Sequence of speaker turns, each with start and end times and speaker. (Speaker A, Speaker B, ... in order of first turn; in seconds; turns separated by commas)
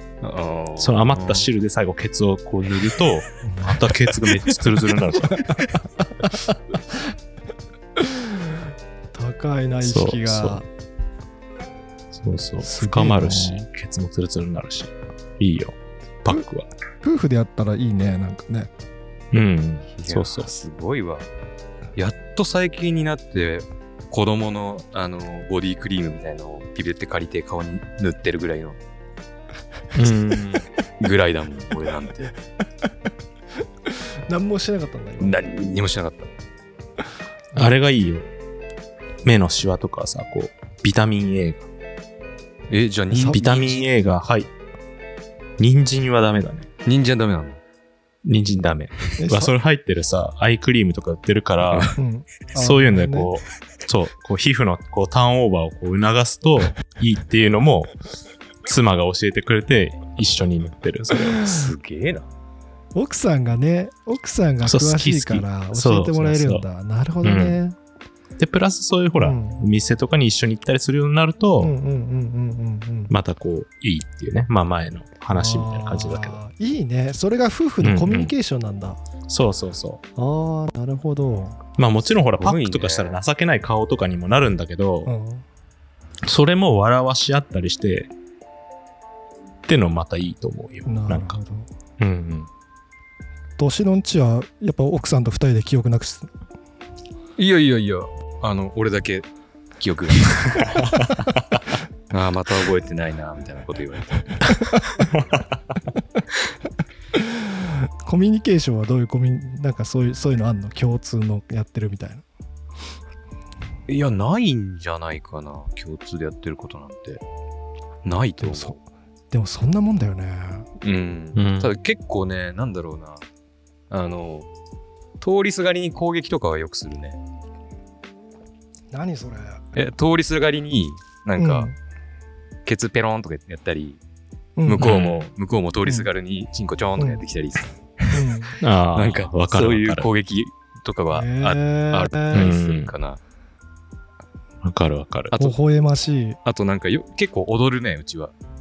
Speaker A: 0.2-1.5, Speaker B: 0.8-5.5, Speaker C: 8.0-8.5, Speaker C: 9.1-10.7, Speaker B: 9.8-10.6, Speaker B: 12.1-16.7, Speaker C: 12.6-13.7, Speaker C: 17.0-18.7, Speaker B: 19.3-20.5, Speaker A: 20.0-21.3, Speaker A: 22.0-28.8, Speaker B: 29.9-30.6, Speaker A: 31.0-32.4, Speaker C: 34.3-35.5, Speaker A: 35.2-36.3, Speaker B: 37.5-38.3, Speaker B: 39.2-41.7, Speaker A: 42.7-43.9, Speaker C: 43.1-43.4, Speaker B: 43.2-44.5, Speaker B: 45.6-46.7, Speaker A: 46.9-47.6, Speaker B: 48.2-51.9, Speaker C: 49.2-49.5, Speaker A: 51.7-52.0, Speaker C: 52.0-53.3, Speaker B: 52.5-57.9, Speaker B: 58.6-61.5, Speaker A: 61.4-62.3, Speaker C: 63.0-67.8, Speaker B: 64.6-66.7, Speaker B: 67.2-67.6, Speaker B: 68.4-71.7, Speaker C: 69.2-69.6, Speaker C: 71.6-73.1, Speaker B: 73.1-76.4, Speaker C: 75.3-79.0, Speaker B: 77.8-78.3, Speaker B: 79.3-80.0, Speaker C: 80.2-81.6, Speaker B: 81.8-85.1, Speaker A: 82.4-83.2, Speaker C: 85.0-85.4, Speaker B: 86.2-88.1, Speaker B: 89.7-91.4, Speaker C: 90.9-91.7, Speaker B: 92.0-92.5, Speaker C: 93.6-96.3, Speaker A: 97.4-99.3, Speaker A: 99.8-100.8, Speaker A: 102.1-104.4, Speaker C: 108.0-112.2, Speaker A: 113.9-117.2, Speaker A: 118.0-118.8, Speaker C: 118.4-118.8, Speaker C: 119.3-120.7, Speaker A: 120.8-123.2, Speaker B: 121.3-121.7, Speaker A: 123.9-124.5, Speaker A: 125.2-127.2, Speaker C: 128.9-129.6, Speaker A: 129.7-131.7, Speaker C: 131.4-131.7, Speaker A: 132.7-134.0, Speaker C: 134.6-134.9, Speaker A: 134.7-138.4, Speaker B: 134.8-135.3, Speaker C: 137.0-137.2, Speaker C: 138.1-138.6, Speaker B: 138.6-140.1, Speaker A: 138.9-143.2, Speaker C: 141.1-142.5, Speaker B: 142.3-142.9, Speaker B: 144.6-145.3, Speaker A: 145.3-145.6, Speaker C: 145.4-146.4, Speaker A: 146.4-148.3